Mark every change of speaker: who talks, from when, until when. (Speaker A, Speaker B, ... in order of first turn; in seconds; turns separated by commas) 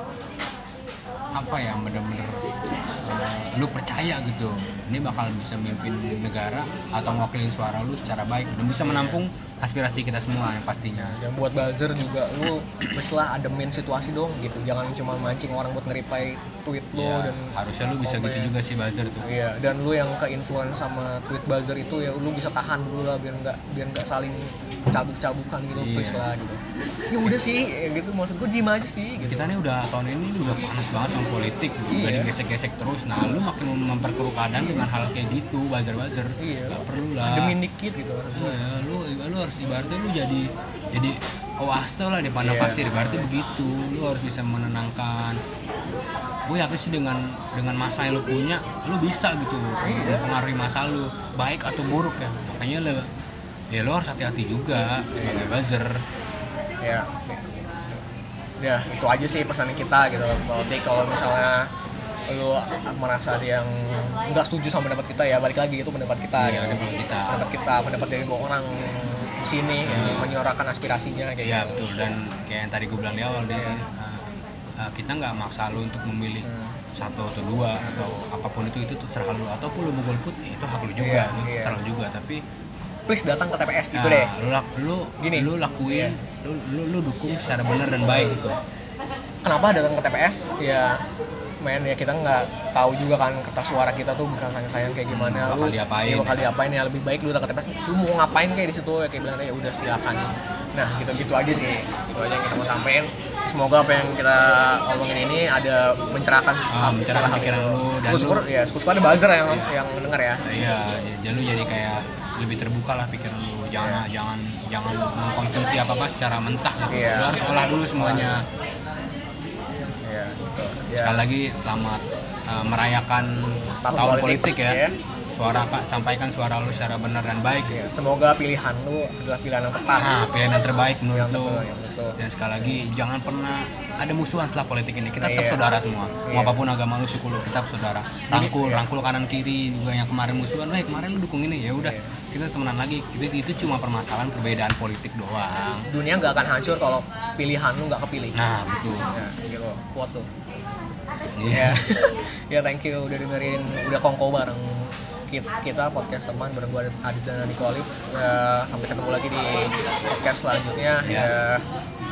Speaker A: 1.3-2.5, Speaker A: 3.0-11.2, Speaker B: 8.8-9.2, Speaker B: 11.0-18.5, Speaker A: 16.9-19.3, Speaker B: 19.2-29.5, Speaker A: 25.7-26.3, Speaker A: 29.2-37.6, Speaker B: 31.9-32.3, Speaker B: 36.4-38.7, Speaker A: 38.4-45.4, Speaker B: 42.4-43.3, Speaker A: 46.5-53.1, Speaker B: 49.8-50.2, Speaker A: 53.7-56.0, Speaker B: 55.1-55.5, Speaker B: 56.8-58.0, Speaker B: 58.6-61.7, Speaker B: 62.3-71.8, Speaker A: 66.4-67.4, Speaker A: 69.8-70.3, Speaker A: 71.4-82.4, Speaker B: 76.4-76.8, Speaker B: 77.8-78.2, Speaker B: 81.0-81.8, Speaker B: 83.1-84.3, Speaker A: 83.9-88.6, Speaker B: 85.2-86.2, Speaker B: 88.1-88.6, Speaker B: 89.4-91.0, Speaker B: 91.6-110.4, Speaker A: 95.1-96.5, Speaker A: 106.7-108.4, Speaker A: 109.5-109.8, Speaker A: 110.4-118.5, Speaker B: 116.9-118.4, Speaker B: 120.0-121.3, Speaker A: 120.9-124.8, Speaker B: 123.8-125.0, Speaker A: 125.4-127.8, Speaker B: 127.6-130.1, Speaker A: 130.0-131.6, Speaker B: 131.1-132.8, Speaker A: 132.2-145.9, Speaker B: 135.2-135.6, Speaker B: 136.3-136.6, Speaker B: 138.3-138.9, Speaker B: 141.8-142.1, Speaker B: 145.9-148.4, Speaker A: 148.3-149.2, Speaker B: 149.1-150.3, Speaker A: 151.4-151.8, Speaker B: 151.5-161.6, Speaker A: 161.0-161.3